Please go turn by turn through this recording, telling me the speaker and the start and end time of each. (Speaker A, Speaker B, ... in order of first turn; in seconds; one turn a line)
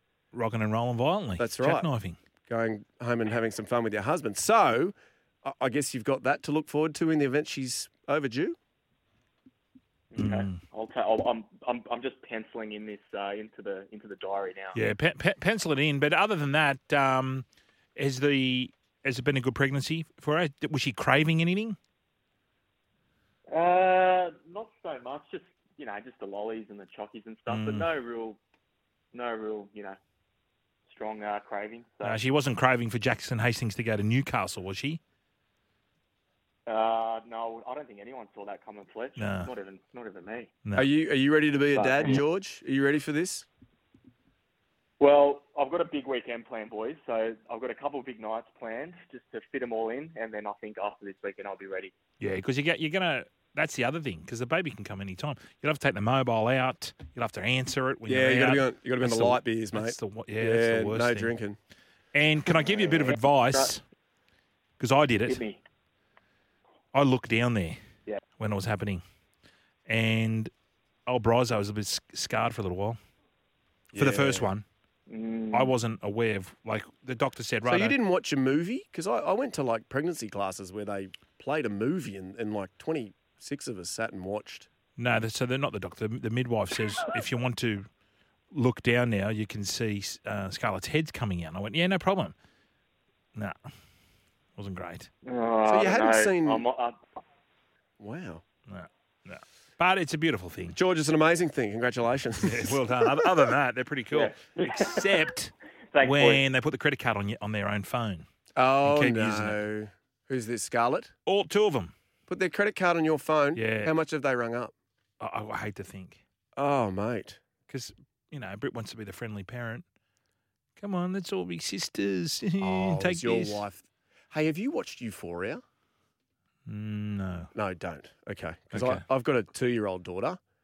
Speaker A: 0.3-2.2
Speaker B: 1.4-1.9
Speaker B: 2.5-8.6
Speaker C: 10.1-14.8
Speaker A: 10.2-10.6
Speaker A: 14.7-21.8
Speaker C: 23.5-28.4
Speaker A: 27.5-27.9
Speaker C: 29.1-30.0
Speaker C: 30.9-32.2
Speaker A: 32.0-35.0
Speaker C: 36.7-40.5
Speaker A: 39.2-39.5
Speaker B: 40.8-43.5
Speaker C: 41.7-42.2
Speaker C: 45.0-51.9
Speaker A: 52.2-61.3
Speaker B: 58.1-61.6
Speaker A: 62.1-63.8
Speaker C: 62.5-63.7
Speaker A: 64.8-65.4
Speaker C: 65.3-65.6
Speaker A: 66.9-67.8
Speaker A: 68.4-69.0
Speaker A: 69.9-70.5
Speaker A: 71.1-73.0
Speaker B: 73.9-74.5
Speaker A: 74.0-74.7
Speaker C: 75.1-75.7
Speaker A: 75.5-78.0
Speaker B: 77.7-84.7
Speaker A: 85.0-87.9
Speaker A: 88.5-92.3
Speaker A: 94.6-95.1
Speaker C: 95.2-97.0
Speaker B: 95.7-96.6
Speaker B: 98.0-98.4
Speaker A: 98.7-100.8
Speaker B: 100.7-103.2
Speaker A: 102.5-108.3
Speaker C: 104.1-105.2
Speaker C: 105.9-106.4
Speaker B: 108.5-111.1
Speaker A: 108.8-109.6
Speaker A: 111.3-111.9
Speaker B: 112.3-114.7
Speaker A: 113.5-113.9
Speaker A: 115.2-116.2
Speaker B: 116.6-117.4
Speaker A: 117.7-119.8
Speaker A: 120.8-123.6
Speaker B: 122.6-125.6
Speaker A: 126.7-127.5
Speaker B: 127.5-130.4
Speaker A: 128.7-129.0